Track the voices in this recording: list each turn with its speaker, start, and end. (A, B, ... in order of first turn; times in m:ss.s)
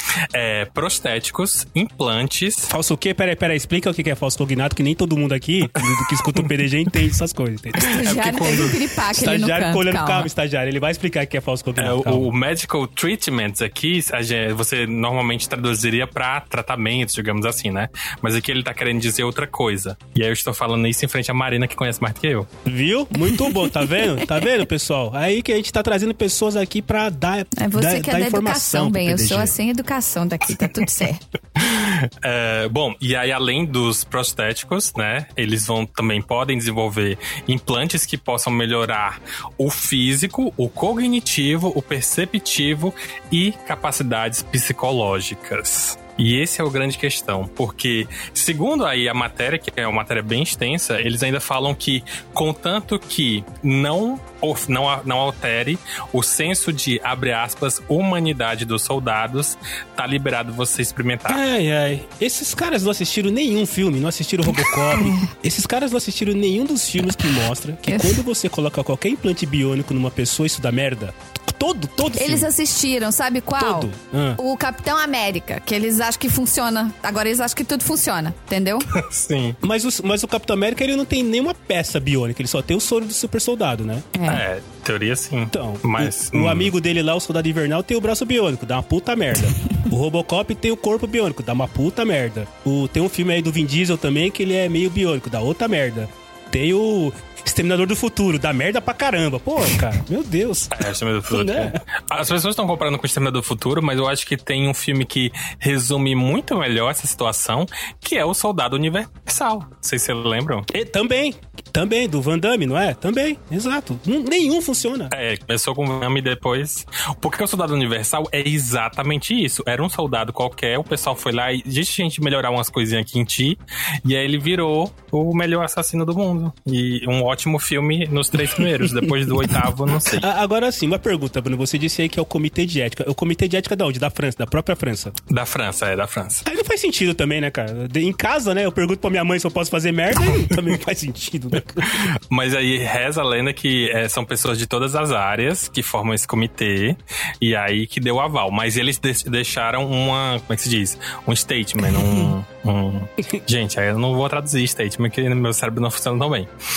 0:00.3-0:02.7 A
0:02.7-0:08.0 B
0:05.8-0:06.4 A
0:07.8-0:10.3 C
0:07.8-0:08.9 A
0:09.1-0:12.3 B
0:11.8-0:22.5 A
0:22.6-0:29.5 B
0:23.3-0:24.0 C
0:27.6-0:31.2 C
0:31.6-1:01.4 A
1:01.3-1:12.5 B
1:04.9-1:05.3 C
1:07.9-1:08.2 C
1:12.2-1:18.9 C
1:13.6-1:14.4 B
1:18.9-1:19.6 A
1:19.6-1:24.1 B
1:24.1-1:24.4 C
1:24.2-1:26.7 A
1:25.5-1:41.8 B
1:40.7-1:50.7 A
1:50.7-1:55.1 B
1:55.1-2:10.3 A
2:08.6-2:09.6 B
2:10.1-2:15.2 B
2:15.3-2:16.4 A
2:16.4-2:22.1 B
2:21.8-2:36.5 A